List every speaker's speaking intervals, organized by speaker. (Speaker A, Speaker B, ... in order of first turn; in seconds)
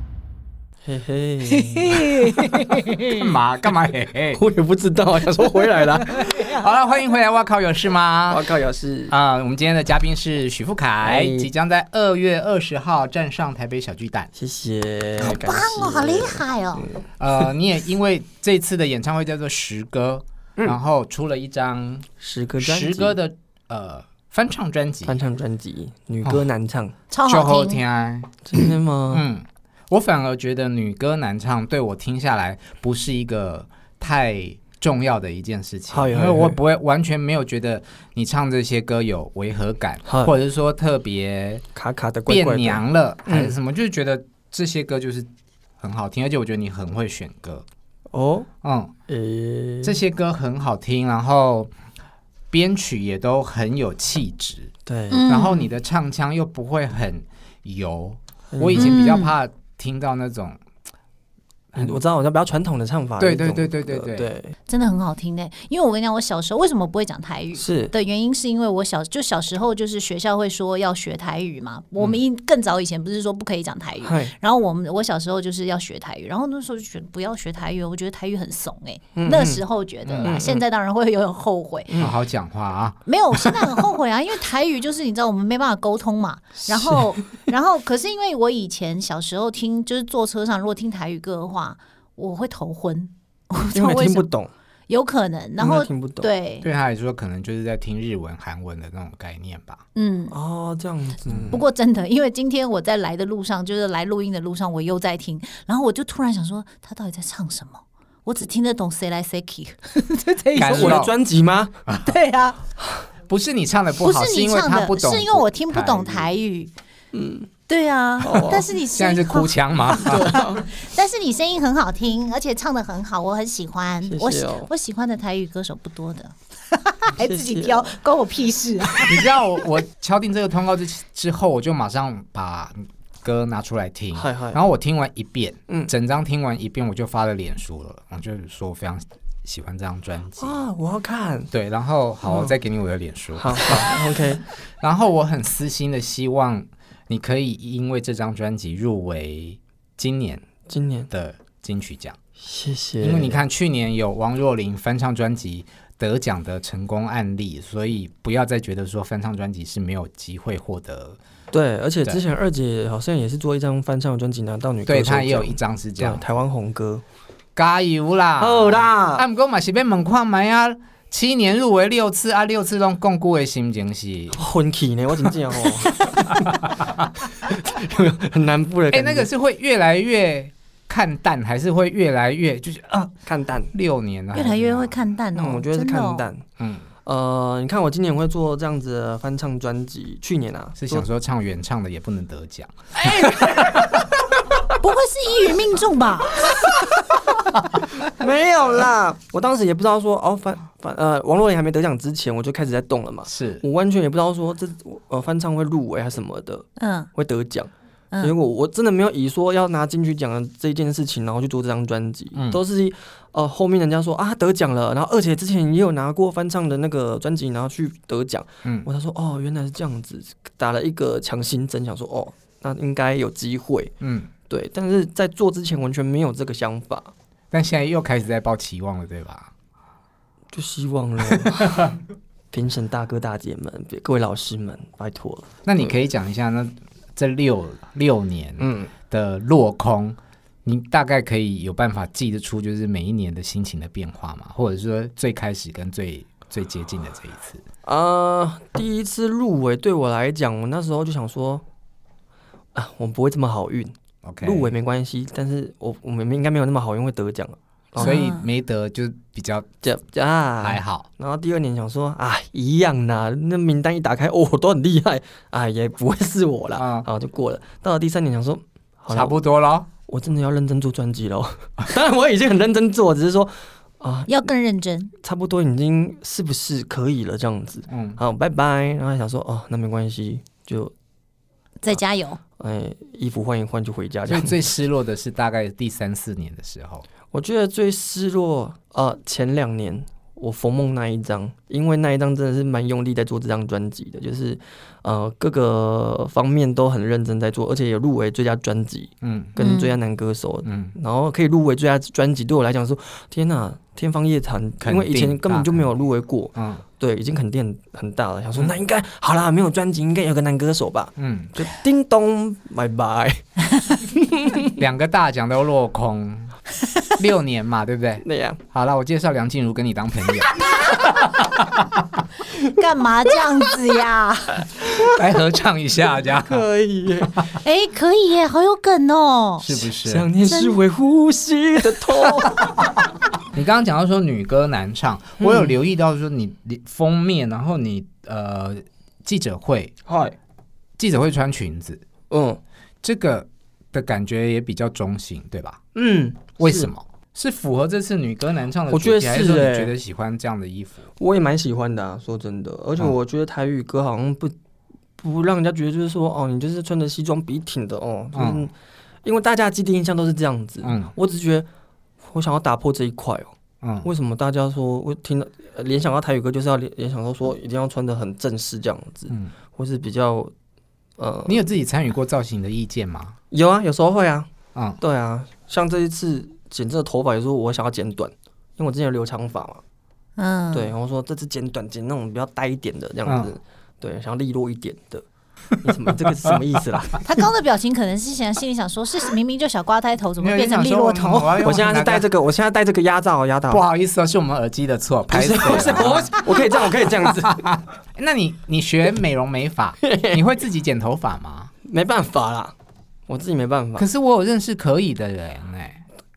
Speaker A: 0.8-2.6, 4.3-6.3, 8.3-9.2, 11.0-11.5, 14.4-17.1, 22.2-23.2, 25.1-26.9, 28.5-29.2, 35.9-36.6, 40.0-40.3, 41.8-43.5, 48.1-48.5, 49.1-50.0, 54.9-55.3, 58.5-59.0, 61.8-64.5, 67.6-67.9, 74.0-74.3, 79.2-79.6, 80.2-80.7, 81.9-82.2, 86.7-87.3, 93.7-94.5, 95.6-96.3, 100.3-101.6, 110.5-111.8, 117.1-117.5, 118.2-118.7, 120.0-120.6, 124.1-124.7, 127.2-128.0, 134.2-134.6, 140.4-141.5, 142.3-142.6, 143.4-144.5, 150.7-151.1, 152.4-153.4, 161.5-167.0, 168.4-169.2, 174.3-176.5, 177.4-179.3, 183.2-183.7, 185.3-186.4, 187.1-191.1, 192.9-194.1, 196.5-196.9, 198.0-223.9, 224.5-227.1, 230.5-231.9, 232.5-235.9, 238.6-238.9, 247.9-251.6, 252.8-258.2, 259.8-269.4, 270.1-274.4, 275.2-280.9, 282.6-284.6, 287.3-314.7, 318.2-318.6, 326.4-327.5, 330.0-332.8, 335.4-335.8, 340.1-340.4, 342.3-342.6, 345.9-346.9, 348.9-349.9, 351.2-354.5, 355.2-358.7, 359.2-361.7, 362.2-363.5, 364.0-370.5, 371.2-371.6, 373.5-379.8, 380.7-385.2, 385.8-387.3, 391.6-393.8, 395.3-397.7, 400.0-400.5, 401.9-402.7, 403.3-404.1
Speaker B: 1.5-3.2, 15.2-16.9, 27.1-27.8, 55.1-55.7, 58.8-59.3, 64.7-81.9, 83.1-94.3, 94.9-96.7, 100.0-100.4, 101.5-111.0, 112.0-112.6, 114.0-116.7, 117.7-129.3, 184.3-186.2, 194.8-196.6, 206.8-207.1, 258.0-258.5, 274.3-275.1, 281.8-282.4, 299.6-299.9, 322.5-324.7, 327.6-329.7, 330.4-330.8, 380.4-380.9, 387.2-391.6
Speaker C: 3.1-4.4, 6.3-8.5, 9.1-14.3, 17.2-22.1, 22.6-25.2, 27.3-28.4, 29.1-41.6, 42.3-45.3, 45.8-47.6, 48.6-48.9, 49.8-51.7, 52.5-54.7, 55.3-60.6, 61.7-62.0, 63.2-64.3, 80.1-80.4, 82.0-83.0, 96.6-99.8, 101.3-101.6, 110.5-111.1, 111.9-112.2, 113.3-116.3, 118.9-120.5, 129.0-140.6, 141.5-144.0, 144.8-150.5, 151.1-152.2, 153.0-161.2, 164.8-166.2, 167.6-174.4, 176.7-176.9, 178.9-183.1, 183.7-185.0, 186.6-186.8, 190.8-194.0, 203.3-203.6, 212.3-212.6, 218.6-218.9, 224.0-224.3, 227.5-229.5, 231.4-231.9, 235.7-247.6, 254.2-254.7, 258.0-259.7, 260.6-261.1, 266.8-267.1, 269.1-269.9, 277.9-278.2, 284.3-287.1, 299.2-299.5, 300.6-300.9, 304.8-305.8, 306.6-306.8, 311.2-311.6, 314.8-316.6, 317.2-322.2, 325.0-326.6, 329.6-330.3, 333.5-339.9, 341.0-342.0, 343.0-345.8, 346.6-351.1, 358.3-358.6, 360.8-361.1, 363.8-364.1, 371.5-373.4, 383.3-383.5, 390.4-392.3, 393.7-396.6, 397.4-401.7, 404.0-406.0